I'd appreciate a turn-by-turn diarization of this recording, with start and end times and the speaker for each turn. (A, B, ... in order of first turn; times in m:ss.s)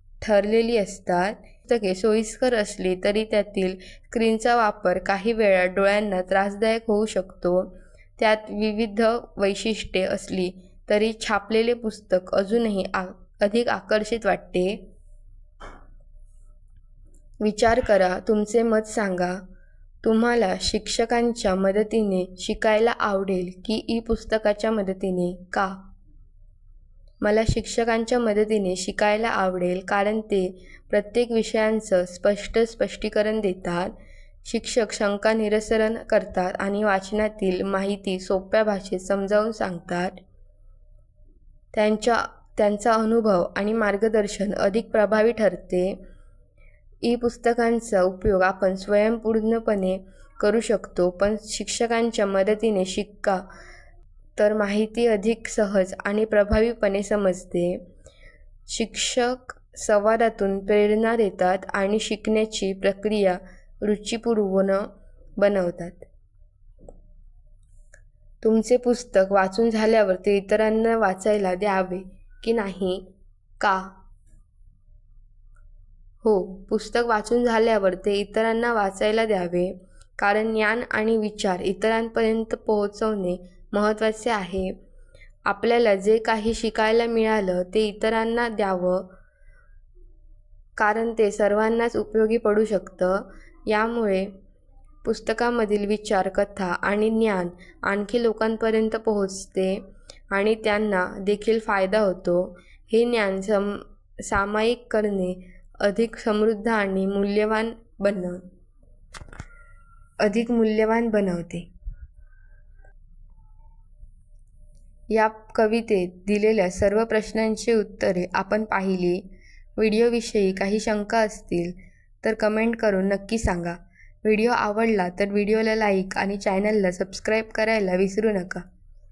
0:00.2-0:14.8 A
0:17.4-0:19.4 A
0:20.0-0:25.8 A
0:27.2-0:33.9 A
0:34.4-0:40.2 A
0:41.7-0:46.0 A
0:47.0-0:53.4 A
0:54.4-0:57.8 A
0:58.7-1:06.1 A
1:08.4-1:13.0 A
1:13.6-1:13.9 A
1:16.2-1:24.7 A
1:25.4-1:29.1 A
1:30.8-1:34.3 A
1:35.0-1:48.4 A
1:50.2-1:51.7 A
1:55.1-1:59.2 A
1:59.8-2:08.6 A